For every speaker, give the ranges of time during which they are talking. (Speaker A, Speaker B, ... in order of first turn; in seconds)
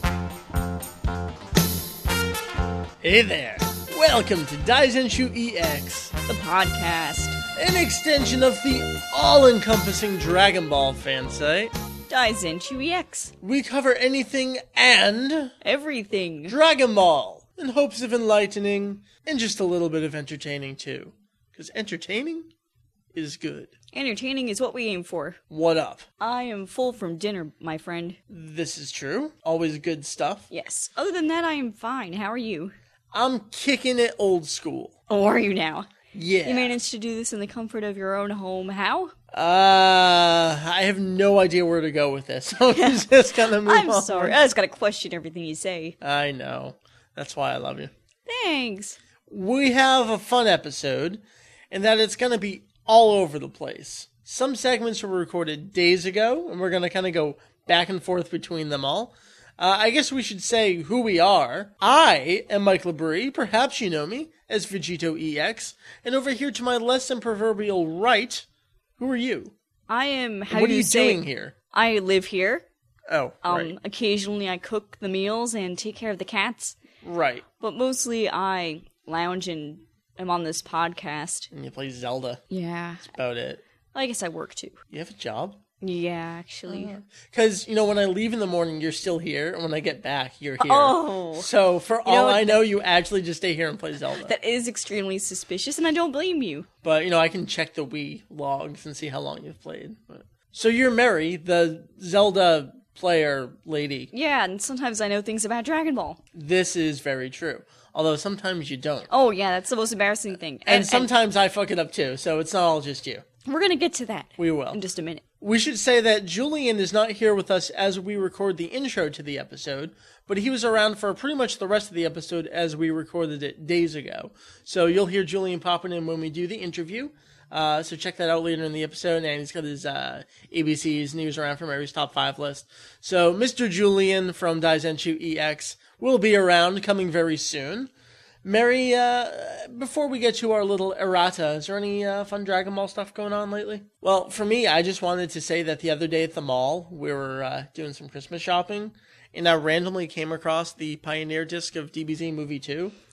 Speaker A: 3.0-6.1, 7.5-11.7, 13.4-15.6, 16.5-22.5, 23.1-23.7, 25.5-26.1, 28.3-30.5, 33.1-34.9, 36.1-36.8, 39.3-44.4, 46.0-47.9, 49.3-68.5, 69.0-69.5, 70.5-71.5, 73.1-73.7, 77.0-77.4, 81.5-82.4, 83.0-83.6, 84.9-85.6, 86.7-94.3, 96.8-104.1, 106.3-109.1, 110.7-113.2, 114.4-114.8, 115.4-137.9, 138.4-152.9
Speaker B: 6.3-7.4, 12.1-13.3, 15.6-16.6, 23.9-25.4, 26.2-28.2, 30.5-32.7, 35.1-35.9, 36.5-39.1, 42.7-46.0, 48.3-49.0, 69.9-72.6, 73.4-76.8, 77.6-81.5, 82.5-83.1, 83.9-84.8, 85.8-86.9, 90.6-91.5, 92.0-92.6, 94.2-96.7, 104.1-106.2, 109.1-111.1, 113.5-115.2